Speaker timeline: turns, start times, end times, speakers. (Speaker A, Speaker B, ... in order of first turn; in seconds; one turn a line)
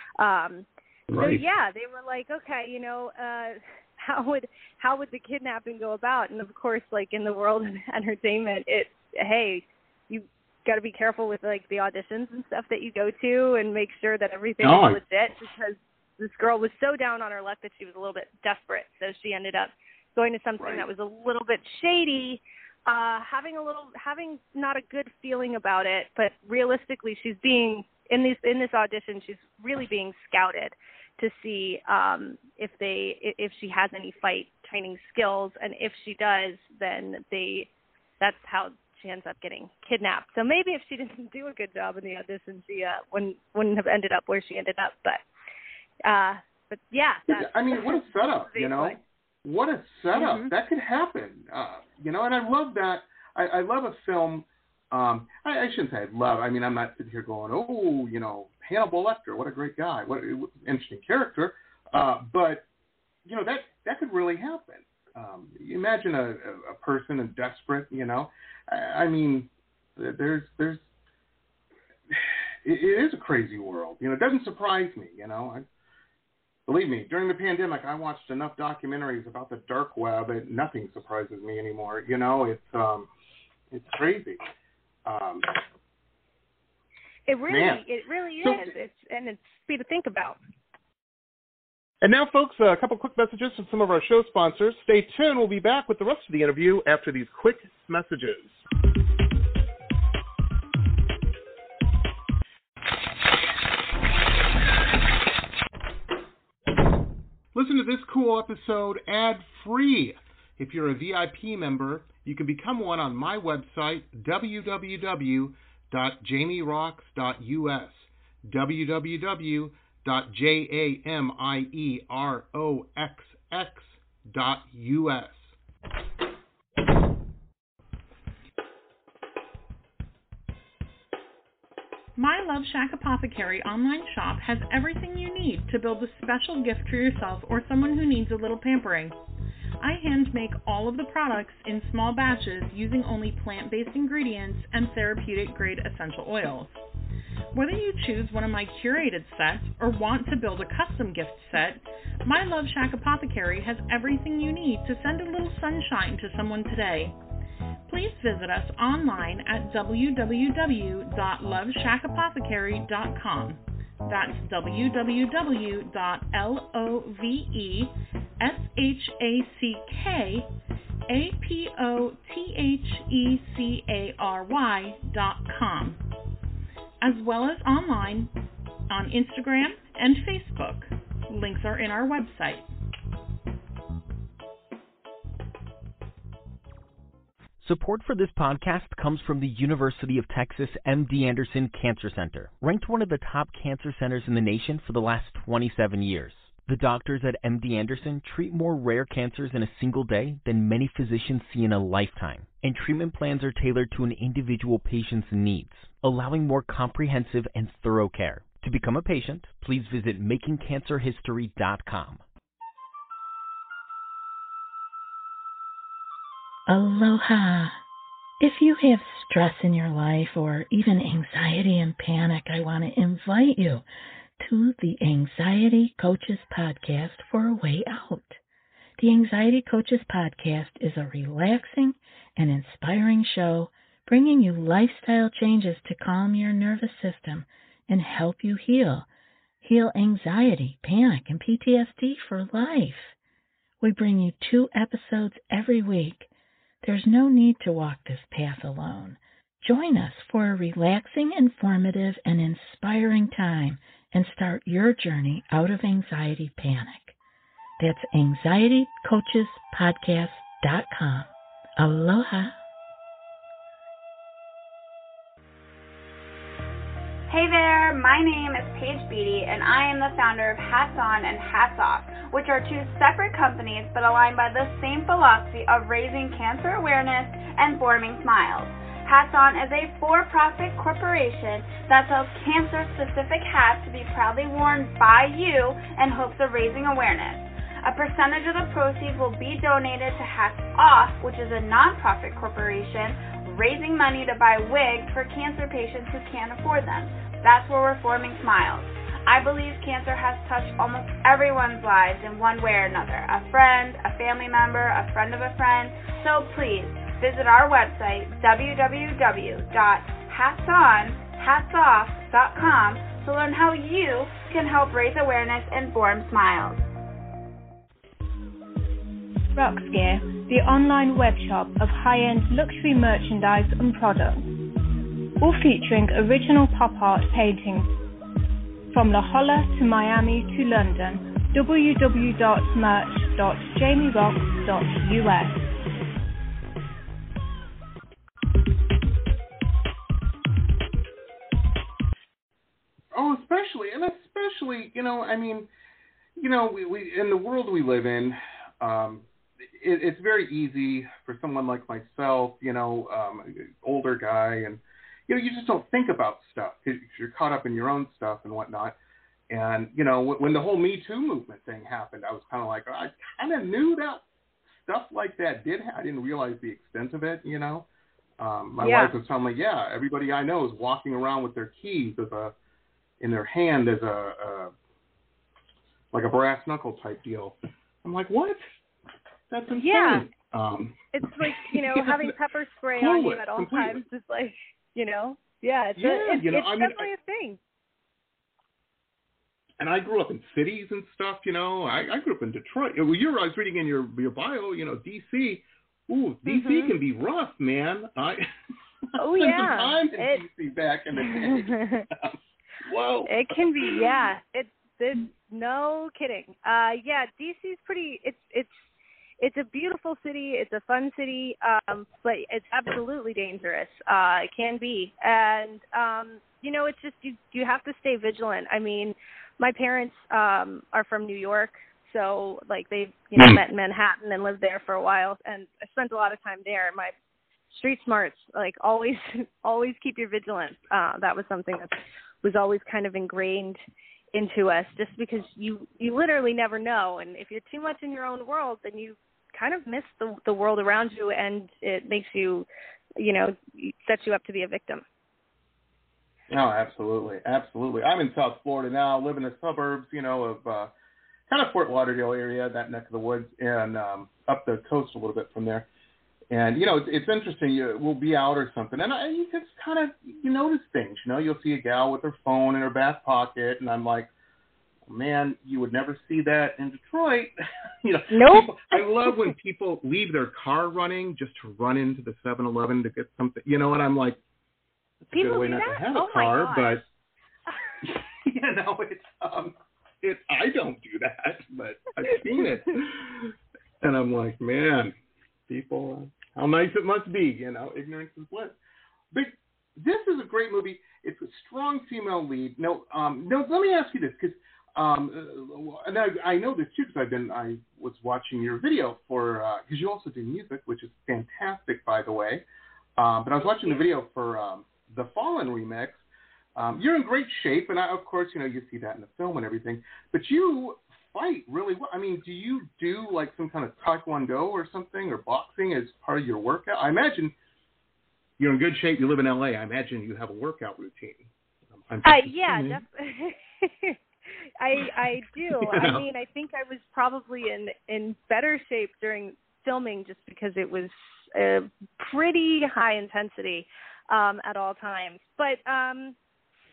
Speaker A: 0.2-37.7
Speaker B: 1.1-1.4
Speaker B: 14.6-15.0
Speaker B: 20.6-20.9
Speaker A: 38.2-45.2
Speaker A: 46.0-49.0
Speaker B: 47.3-62.6
Speaker A: 50.1-50.5
Speaker B: 63.2-70.8
Speaker B: 72.1-75.6
Speaker B: 76.7-83.1
Speaker B: 83.7-84.4
Speaker B: 85.0-85.5
Speaker A: 87.3-90.4
Speaker B: 87.5-87.8
Speaker B: 88.4-88.7
Speaker B: 92.0-98.5
Speaker B: 107.5-125.5
Speaker C: 132.2-139.2
Speaker C: 139.8-146.8
Speaker C: 147.5-157.2
Speaker C: 157.9-170.5
Speaker C: 171.1-176.0
Speaker C: 177.0-178.3
Speaker C: 178.9-182.7
Speaker D: 187.6-212.2
Speaker E: 216.7-217.8
Speaker E: 218.4-223.8
Speaker E: 224.4-228.4
Speaker E: 229.0-239.1
Speaker E: 239.6-243.1
Speaker E: 243.8-246.3
Speaker E: 246.8-257.2
Speaker E: 257.8-262.6
Speaker F: 267.3-316.9
Speaker G: 319.6-324.5
Speaker G: 325.4-327.9
Speaker G: 328.9-335.6
Speaker B: 343.1-345.7
Speaker B: 346.4-359.0
Speaker B: 359.5-367.9
Speaker B: 368.4-372.5
Speaker A: 368.8-369.1
Speaker B: 373.2-374.7
Speaker B: 376.1-378.6
Speaker B: 379.5-382.3
Speaker A: 379.8-380.3
Speaker A: 381.1-387.6
Speaker B: 383.0-384.0
Speaker B: 386.0-387.1
Speaker B: 389.8-398.5
Speaker A: 396.5-396.9
Speaker B: 399.1-404.1
Speaker A: 399.2-400.4
Speaker A: 401.2-402.1
Speaker A: 403.3-408.8
Speaker A: 409.4-427.1
Speaker A: 427.7-433.8
Speaker A: 434.3-442.7
Speaker A: 443.2-445.0
Speaker B: 446.5-450.9
Speaker B: 451.5-455.9
Speaker B: 456.5-464.3
Speaker B: 465.1-467.5
Speaker B: 468.0-474.4
Speaker A: 468.3-469.5
Speaker B: 475.2-477.1
Speaker A: 475.3-477.0
Speaker B: 478.0-485.1
Speaker B: 485.7-488.8
Speaker B: 489.3-502.6
Speaker B: 503.2-506.2
Speaker A: 503.6-504.0
Speaker B: 506.8-517.5
Speaker B: 518.6-523.0
Speaker A: 522.2-524.2
Speaker A: 524.8-536.4
Speaker B: 525.8-526.3